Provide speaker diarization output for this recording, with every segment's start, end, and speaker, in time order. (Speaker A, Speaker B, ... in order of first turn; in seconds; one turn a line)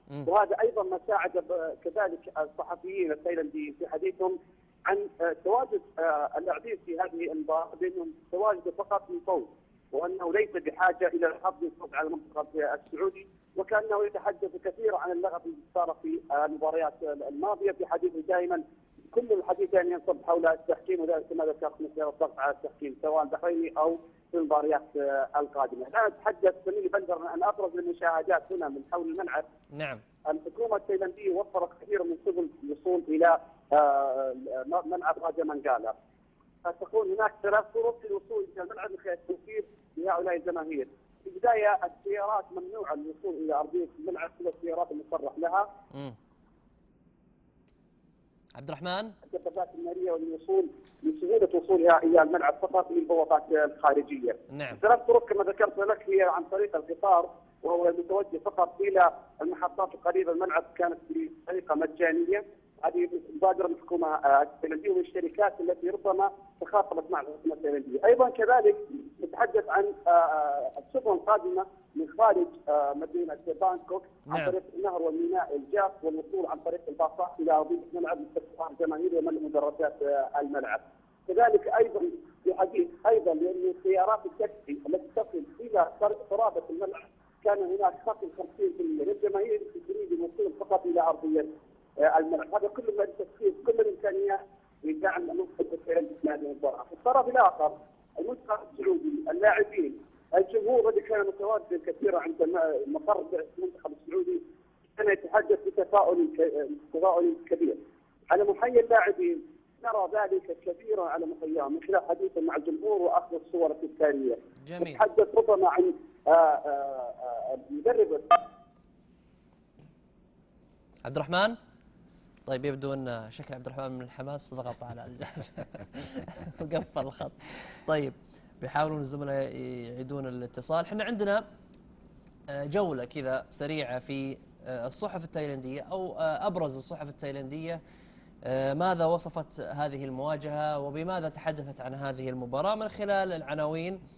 Speaker A: 0.2-29.5
Speaker B: 29.7-30.0
Speaker A: 30.3-36.0
Speaker A: 36.6-45.7
Speaker B: 48.6-49.2
Speaker A: 49.3-91.5
Speaker B: 54.5-54.8
Speaker B: 74.3-74.6
Speaker A: 92.0-104.4
Speaker A: 105.0-107.8
Speaker A: 108.3-118.4
Speaker B: 114.6-115.0
Speaker B: 121.0-121.6
Speaker B: 122.5-131.5
Speaker B: 132.5-137.8
Speaker B: 138.4-144.0